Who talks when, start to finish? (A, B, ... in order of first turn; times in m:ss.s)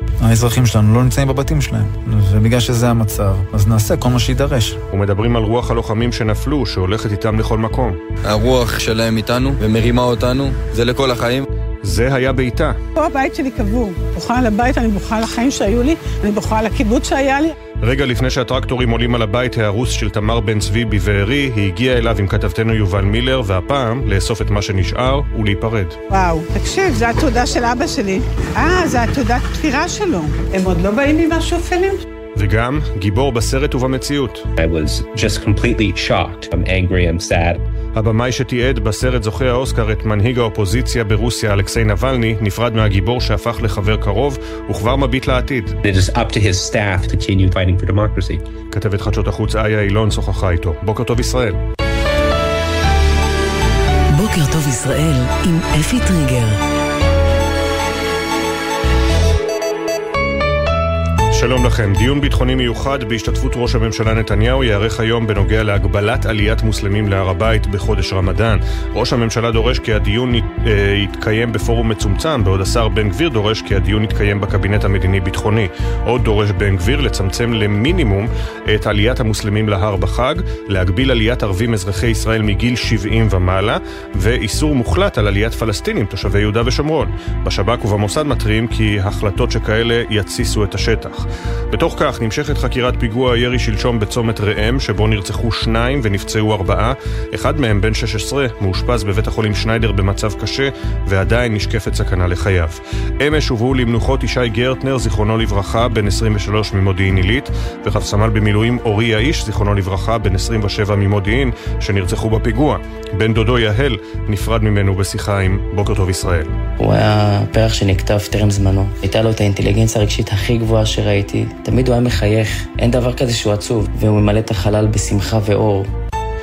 0:00.2-0:04.8 A
0:04.9-0:08.0 B
0:08.2-0:11.4 C
0:11.8-0:12.8 B
0:13.0-0:17.6 D
0:17.8-0:26.0 B
0:26.1-0:32.0 D
0:32.4-0:34.5 B
0:34.6-0:37.6 E
0:37.9-0:45.8 B
0:45.8-0:48.4 E
0:48.7-0:51.6 B
0:54.1-0:56.6 F
1:01.3-1:56.5 B
1:56.8-2:05.9 G